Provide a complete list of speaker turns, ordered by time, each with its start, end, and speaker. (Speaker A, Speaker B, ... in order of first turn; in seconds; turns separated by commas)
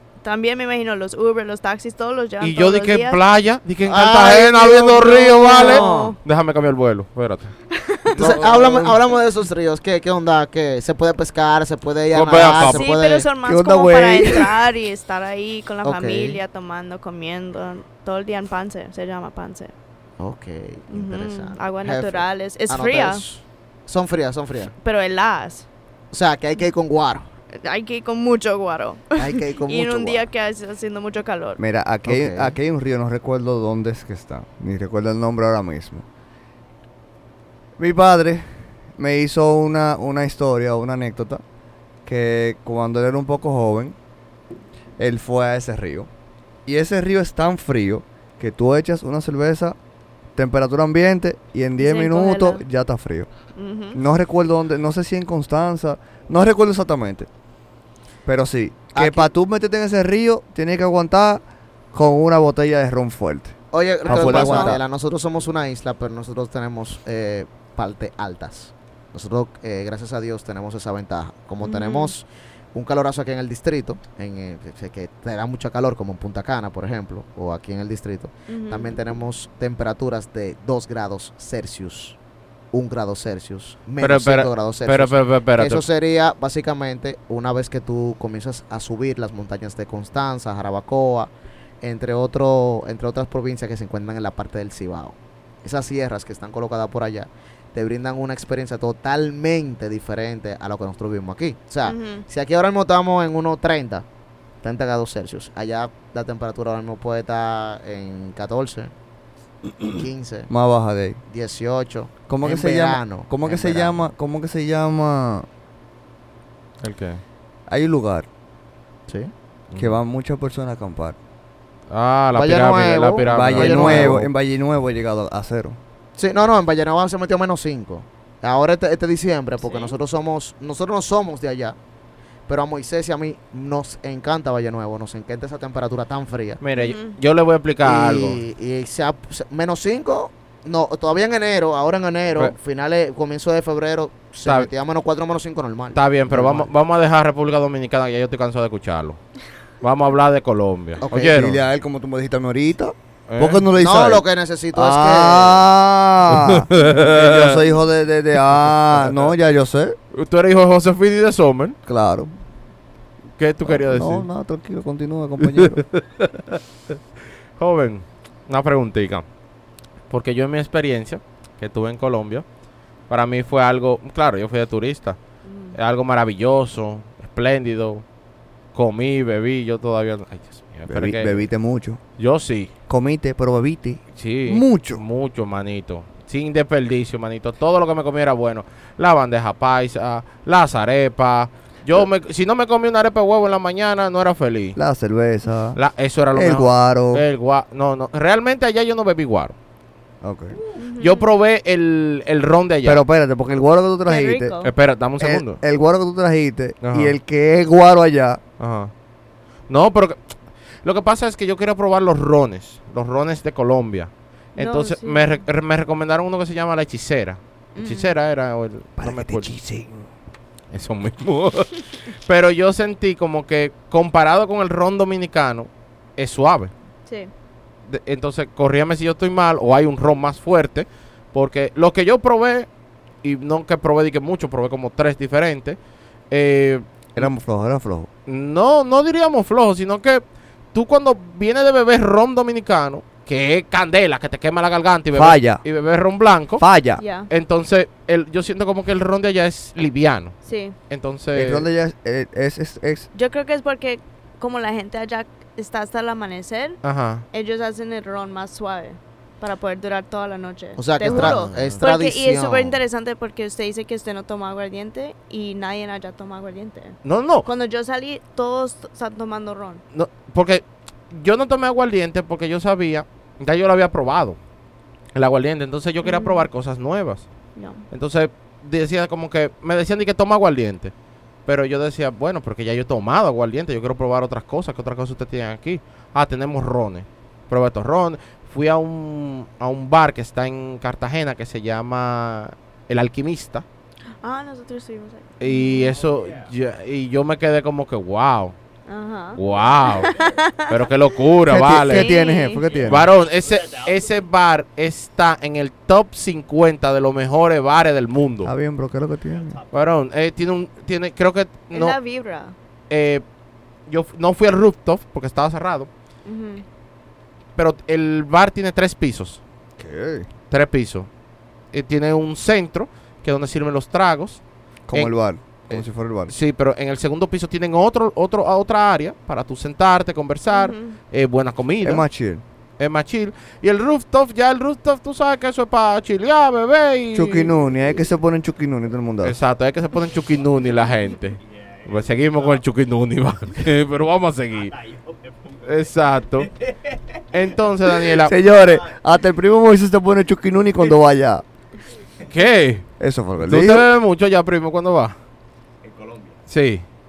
Speaker A: 0.2-3.2, Speaker B: 2.4-7.5, Speaker C: 3.8-6.2, Speaker A: 5.0-6.2, Speaker A: 7.7-8.4, Speaker C: 8.1-13.3, Speaker B: 8.2-8.9, Speaker B: 12.1-12.8, Speaker A: 12.6-19.7, Speaker D: 13.4-14.6, Speaker C: 15.8-16.4, Speaker C: 20.2-24.7, Speaker A: 20.9-23.2, Speaker A: 24.8-25.7, Speaker C: 26.1-27.2, Speaker A: 27.5-31.6, Speaker C: 29.2-30.3, Speaker D: 31.6-36.0, Speaker C: 32.0-32.5, Speaker D: 37.8-41.4, Speaker D: 42.0-44.0, Speaker D: 45.0-46.1, Speaker D: 46.6-49.8, Speaker D: 50.4-53.3, Speaker A: 51.8-52.6, Speaker A: 53.5-54.0, Speaker D: 53.9-57.3, Speaker D: 58.2-63.5, Speaker C: 58.9-59.3, Speaker C: 63.7-82.2, Speaker D: 64.0-64.8, Speaker A: 64.1-64.8, Speaker A: 71.6-72.1, Speaker A: 78.5-79.0, Speaker C: 82.7-104.0, Speaker B: 84.0-85.8, Speaker A: 101.8-102.2, Speaker C: 104.6-108.9, Speaker C: 109.9-110.5, Speaker D: 110.5-111.2, Speaker C: 111.3-114.0, Speaker D: 112.3-115.5, Speaker B: 116.8-117.2, Speaker D: 117.7-118.2, Speaker C: 119.1-119.3, Speaker B: 119.7-120.0, Speaker D: 119.8-121.2, Speaker B: 121.9-124.2, Speaker C: 122.3-124.2, Speaker D: 123.3-125.8, Speaker C: 126.2-131.8, Speaker A: 129.6-129.9, Speaker C: 132.5-136.6, Speaker B: 136.6-138.4, Speaker A: 136.8-137.2, Speaker C: 137.8-146.7, Speaker B: 144.4-144.7, Speaker B: 145.9-149.2, Speaker B: 149.8-151.6, Speaker C: 151.0-151.5, Speaker D: 151.1-159.9, Speaker B: 153.3-153.6, Speaker C: 153.8-155.6, Speaker B: 156.3-157.6, Speaker B: 158.9-159.3, Speaker B: 160.1-161.8, Speaker D: 161.8-162.3, Speaker B: 163.4-164.3, Speaker D: 163.6-165.8, Speaker B: 165.4-166.6, Speaker B: 167.6-169.2, Speaker B: 170.1-172.4, Speaker B: 173.1-175.2, Speaker A: 175.4-175.8, Speaker B: 175.7-178.0, Speaker B: 178.7-181.5, Speaker D: 180.9-182.0, Speaker B: 182.2-182.7, Speaker D: 182.9-185.0, Speaker B: 184.1-194.8, Speaker D: 194.7-195.8, Speaker B: 195.7-199.5, Speaker D: 196.3-197.2, Speaker D: 200.2-200.6, Speaker A: 200.8-201.3, Speaker B: 201.0-203.0, Speaker D: 202.8-204.6, Speaker A: 204.1-204.7, Speaker B: 204.6-205.6, Speaker D: 205.2-208.4, Speaker B: 206.8-207.2, Speaker B: 208.6-208.9, Speaker B: 209.7-219.5, Speaker A: 214.6-215.4, Speaker A: 217.8-218.1, Speaker D: 219.0-220.0, Speaker B: 220.7-226.7, Speaker A: 227.1-227.3, Speaker B: 227.9-232.7, Speaker B: 233.2-235.8, Speaker B: 236.3-237.3, Speaker D: 237.1-238.1, Speaker B: 238.2-246.6, Speaker D: 245.1-245.6, Speaker D: 246.6-247.0, Speaker A: 247.0-247.3, Speaker B: 247.3-250.3, Speaker A: 250.4-250.8, Speaker B: 250.9-251.7, Speaker D: 251.3-253.1, Speaker A: 253.1-269.8, Speaker B: 256.8-257.2, Speaker C: 260.8-262.8, Speaker B: 261.1-261.8, Speaker B: 267.0-267.4, Speaker B: 269.9-274.4, Speaker B: 275.1-277.3, Speaker A: 276.0-276.5, Speaker A: 277.5-277.9, Speaker B: 277.9-280.9, Speaker B: 281.4-293.6, Speaker A: 294.2-295.9, Speaker B: 295.4-298.6, Speaker E: 295.7-296.5, Speaker A: 298.9-300.7, Speaker B: 299.4-300.1, Speaker E: 299.4-300.6, Speaker B: 300.6-302.1, Speaker D: 301.5-303.1, Speaker A: 301.8-302.6, Speaker E: 302.6-304.2, Speaker B: 302.9-308.5, Speaker D: 308.4-309.6, Speaker E: 309.3-309.9, Speaker B: 309.7-312.0, Speaker A: 311.7-312.5, Speaker B: 312.9-313.2, Speaker B: 313.9-315.9, Speaker A: 316.2-316.6, Speaker B: 317.6-319.4, Speaker D: 319.8-320.3, Speaker B: 320.5-321.1, Speaker B: 321.7-324.4, Speaker D: 324.9-326.3, Speaker B: 325.7-332.1, Speaker A: 330.5-331.0, Speaker D: 331.8-332.4, Speaker B: 332.8-337.5, Speaker D: 337.1-339.4, Speaker B: 339.2-344.7, Speaker E: 340.3-342.6, Speaker E: 344.5-349.0, Speaker B: 345.6-346.5, Speaker B: 347.3-348.3, Speaker D: 348.2-351.4, Speaker B: 352.3-352.9, Speaker D: 353.0-353.9, Speaker B: 353.4-355.1, Speaker E: 355.8-356.4, Speaker B: 356.5-356.8